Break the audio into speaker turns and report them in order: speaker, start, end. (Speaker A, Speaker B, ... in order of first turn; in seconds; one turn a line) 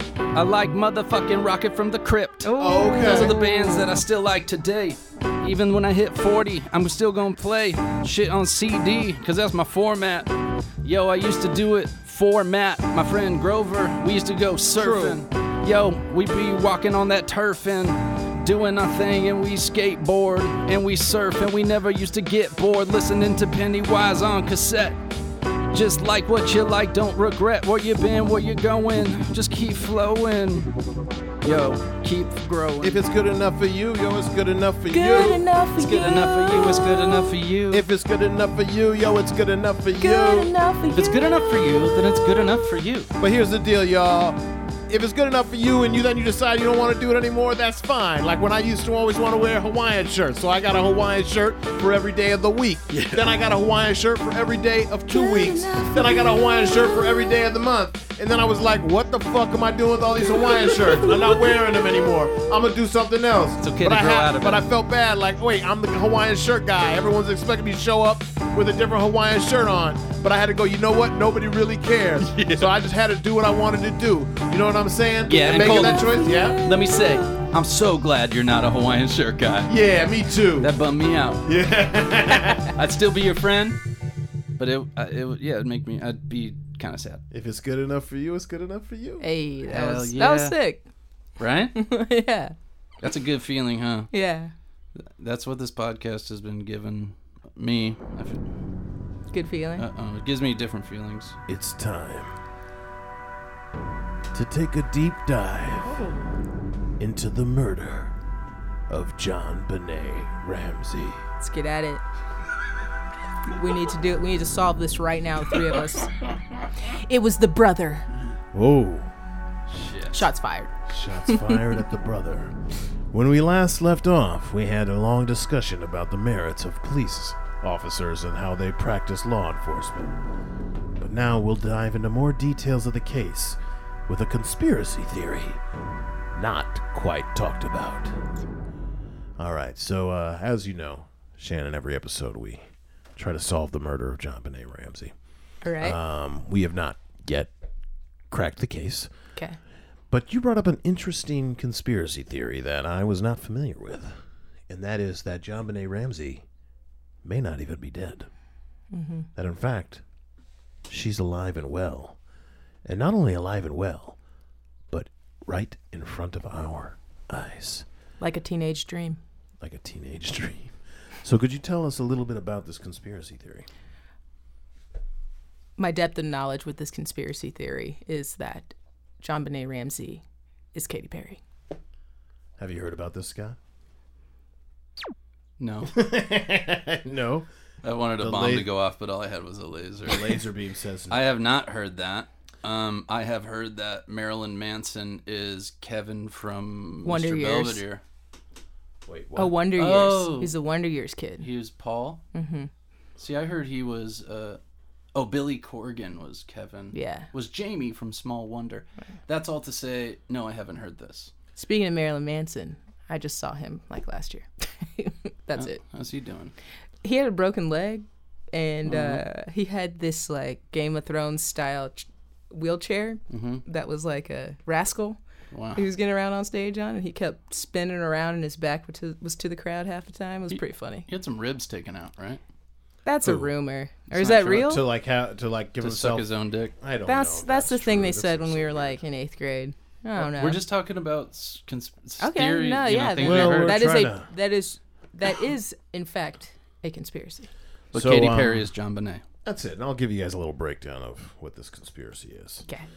Speaker A: 0.3-2.5
Speaker B: 2.4-3.9
Speaker C: 2.6-3.3
Speaker A: 3.0-25.0
Speaker C: 14.7-15.2
Speaker A: 25.7-30.7
Speaker A: 31.4-33.0
Speaker C: 32.8-35.4
Speaker B: 34.9-37.4
Speaker A: 35.1-37.9
Speaker C: 37.7-40.5
Speaker B: 40.0-42.7
Speaker A: 40.9-43.1
Speaker C: 43.2-76.6
Speaker A: 52.9-53.2
Speaker B: 55.1-57.4
Speaker B: 61.0-61.5
Speaker A: 63.6-64.6
Speaker A: 72.2-72.7
Speaker A: 75.2-79.7
Speaker B: 75.6-77.5
Speaker C: 79.7-80.7
Speaker A: 80.6-81.5
Speaker C: 81.4-82.7
Speaker A: 82.7-83.8
Speaker A: 84.6-87.2
Speaker C: 87.3-89.2
Speaker B: 89.2-90.8
Speaker A: 89.7-90.5
Speaker A: 91.4-91.7
Speaker B: 91.7-92.5
Speaker A: 93.0-94.1
Speaker B: 94.1-94.5
Speaker A: 94.9-98.5
Speaker B: 99.3-99.8
Speaker A: 99.8-101.3
Speaker C: 101.5-102.3
Speaker C: 104.3-106.0
Speaker B: 105.8-106.2
Speaker C: 107.0-108.1
Speaker C: 108.9-111.2
Speaker B: 111.4-112.0
Speaker B: 113.5-116.1
Speaker B: 116.8-118.1
Speaker C: 118.5-119.1
Speaker A: 119.7-120.3
Speaker B: 120.1-121.6
Speaker C: 120.9-122.5
Speaker C: 123.1-130.1
Speaker C: 131.0-135.6
Speaker C: 136.3-138.2
Speaker C: 139.4-142.6
Speaker C: 143.2-145.1
Speaker B: 145.6-146.0
Speaker C: 145.8-147.5
Speaker C: 148.3-149.1
Speaker C: 150.1-156.4
Speaker C: 157.2-158.3
Speaker B: 158.9-159.3
Speaker C: 159.3-160.0
Speaker C: 160.9-162.2
Speaker C: 162.8-164.2
Speaker C: 164.9-167.8
Speaker B: 168.2-169.2
Speaker C: 169.6-173.7
Speaker B: 175.8-180.2
Speaker B: 180.7-181.4
Speaker C: 182.6-183.6
Speaker A: 185.6-186.0
Speaker C: 185.9-187.5
Speaker A: 187.8-190.4
Speaker C: 188.2-188.7
Speaker C: 190.1-191.2
Speaker A: 191.1-198.0
Speaker B: 197.0-197.8
Speaker C: 199.1-199.5
Speaker B: 199.3-201.5
Speaker A: 199.8-200.6
Speaker A: 201.4-202.2
Speaker B: 202.3-202.7
Speaker A: 203.2-204.6
Speaker A: 205.1-211.3
Speaker B: 206.9-207.3
Speaker B: 211.6-215.8
Speaker A: 215.6-216.5
Speaker B: 217.0-225.2
Speaker A: 218.8-219.2
Speaker A: 223.3-223.6
Speaker A: 225.5-225.8
Speaker B: 225.7-231.1
Speaker A: 230.5-232.4
Speaker B: 233.1-234.8
Speaker C: 233.2-233.5
Speaker C: 234.1-236.3
Speaker A: 235.8-236.7
Speaker C: 236.8-239.0
Speaker B: 237.0-240.6
Speaker A: 240.2-243.8
Speaker B: 242.2-247.5
Speaker C: 243.2-244.3
Speaker C: 247.9-248.7
Speaker A: 247.9-249.2
Speaker C: 249.4-252.7